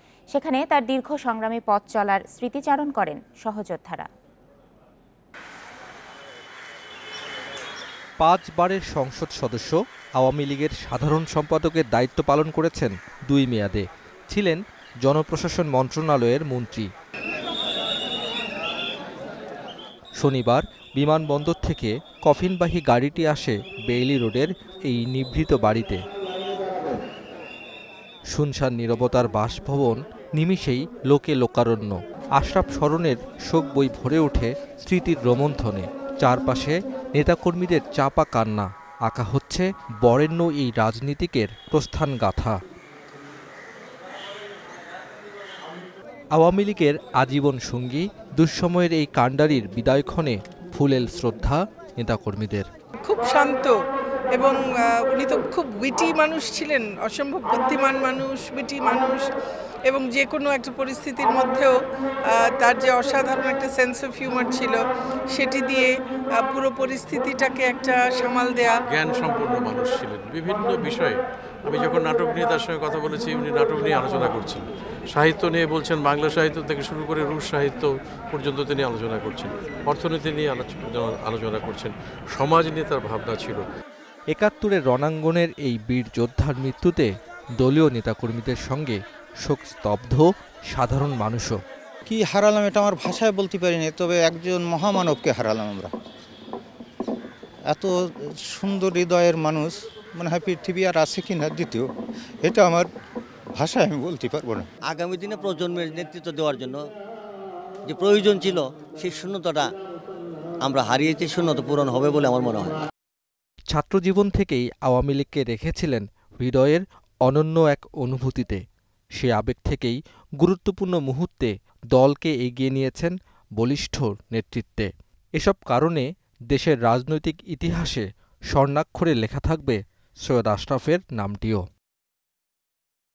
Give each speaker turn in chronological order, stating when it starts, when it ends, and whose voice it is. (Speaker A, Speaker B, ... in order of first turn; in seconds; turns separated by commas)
Speaker A: 0.3-4.1, Speaker B: 8.2-16.9, Speaker B: 20.2-26.0, Speaker B: 28.3-42.5, Speaker B: 46.3-52.6, Speaker C: 53.0-53.7, Speaker C: 54.3-59.2, Speaker C: 59.9-61.7, Speaker C: 62.3-64.8, Speaker C: 65.3-68.7, Speaker D: 68.9-83.6, Speaker B: 84.3-87.1, Speaker B: 87.6-91.6, Speaker E: 92.0-95.9, Speaker E: 98.5-101.9, Speaker E: 102.4-102.9, Speaker E: 103.5-104.7, Speaker F: 104.9-106.8, Speaker F: 107.8-109.6, Speaker F: 110.6-112.7, Speaker B: 113.7-118.6, Speaker B: 119.2-131.6